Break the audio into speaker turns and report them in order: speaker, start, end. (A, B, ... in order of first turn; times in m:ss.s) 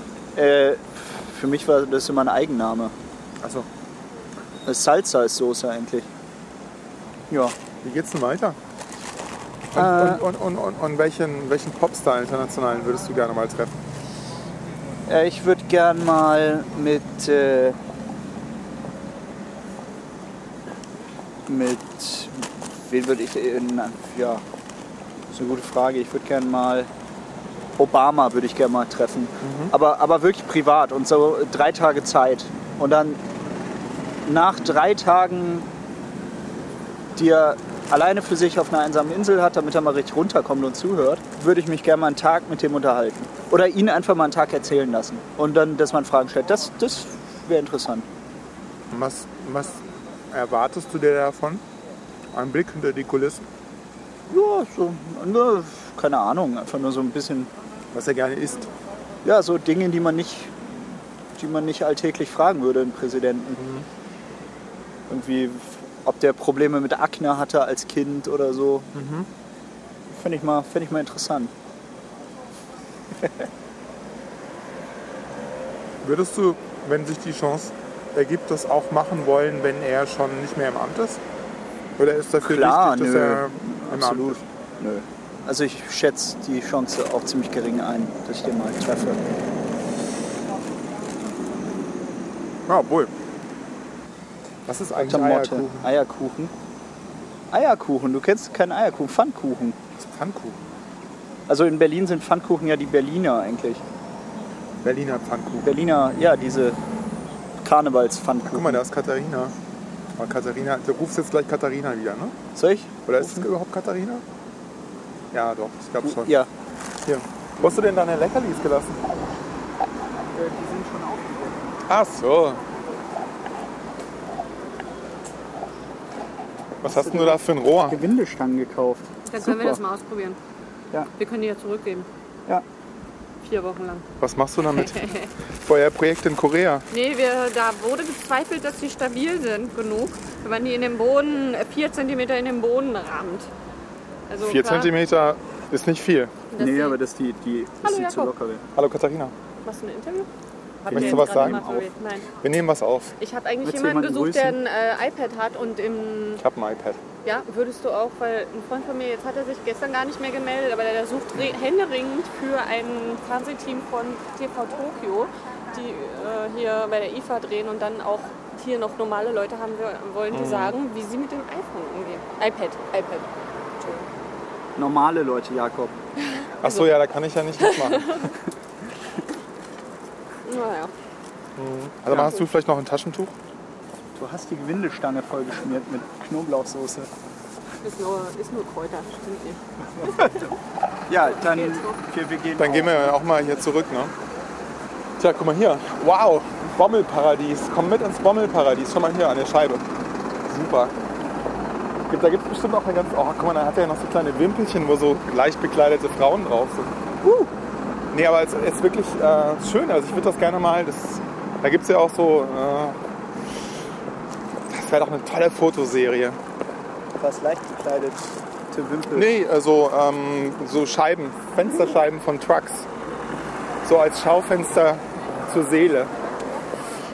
0:00.3-0:02.9 A
0:03.4-0:03.7 B
0:04.6-0:06.1 A
0:07.3-0:07.6 A
0:07.8-0:08.6 B
0:09.7-0:13.7 B
0:09.7-0:10.2 A
0:15.1-0:17.8 A
0:21.5-0:24.4 A
0:25.3-0:26.9 A
0:27.8-0:33.2 A
0:29.4-0:29.7 B
0:34.2-0:35.7 A
0:37.2-0:48.1 A
0:48.9-0:51.6 B
0:52.3-0:53.4 B
0:54.3-0:57.5 A
0:57.9-0:58.7 B
0:59.2-1:00.5 A
1:01.4-1:03.6 A
1:03.6-1:03.8 B
1:05.1-1:08.9 A
1:08.9-1:09.3 B
1:10.1-1:11.5 A
1:13.2-1:13.5 A
1:16.0-1:21.2 B
1:22.0-1:24.4 B
1:22.4-1:29.2 A
1:32.7-1:33.1 B
1:34.6-1:35.9 B
1:35.0-1:36.5 A
1:37.5-1:39.8 A
1:40.0-1:40.6 B
1:41.5-1:43.8 A
1:44.8-1:45.7 B
1:45.6-1:46.8 A
1:47.6-1:48.8 A
1:48.5-1:49.5 B
1:50.2-1:52.4 B
1:52.6-1:53.5 A
1:53.0-1:54.2 B
1:55.3-1:56.4 B
1:56.0-1:56.5 A
1:57.0-1:59.1 B
2:00.3-2:01.8 A
2:01.9-2:02.6 B
2:06.8-2:08.0 B
2:06.8-2:09.8 A
2:09.2-2:10.4 C
2:11.2-2:12.1 C
2:13.4-2:14.0 C
2:14.2-2:15.1 B
2:14.7-2:15.3 C
2:15.6-2:16.9 B
2:16.9-2:23.5 C
2:24.3-2:24.9 C
2:24.4-2:26.3 B
2:26.5-2:27.0 C
2:26.6-2:28.6 A
2:27.8-2:28.3 C
2:28.7-2:29.3 B
2:29.6-2:30.3 C
2:30.8-2:32.3 C
2:30.9-2:31.9 A
2:30.9-2:31.6 B
2:32.4-2:33.1 B
2:33.2-2:36.4 C
2:33.6-2:34.6 A
2:36.4-2:37.0 B
2:37.2-2:53.3 C
2:50.3-2:50.8 B
2:54.8-2:55.9 A
2:56.2-2:56.9 C
2:56.6-2:58.3 B
2:57.8-2:58.2 C
3:00.4-3:00.9 C
3:01.6-3:03.3 B
3:04.1-3:07.1 A
3:07.8-3:10.5 C
3:11.1-3:13.1 A
3:11.1-3:12.0 C
3:12.6-3:14.1 B
3:15.2-3:19.8 B
3:20.5-3:20.9 B
3:22.1-3:26.9 B
3:27.2-3:27.5 A
3:28.1-3:33.0 B
3:34.7-3:36.4 B
3:37.2-3:39.3 A
3:39.1-3:42.9 B
3:43.8-3:46.1 B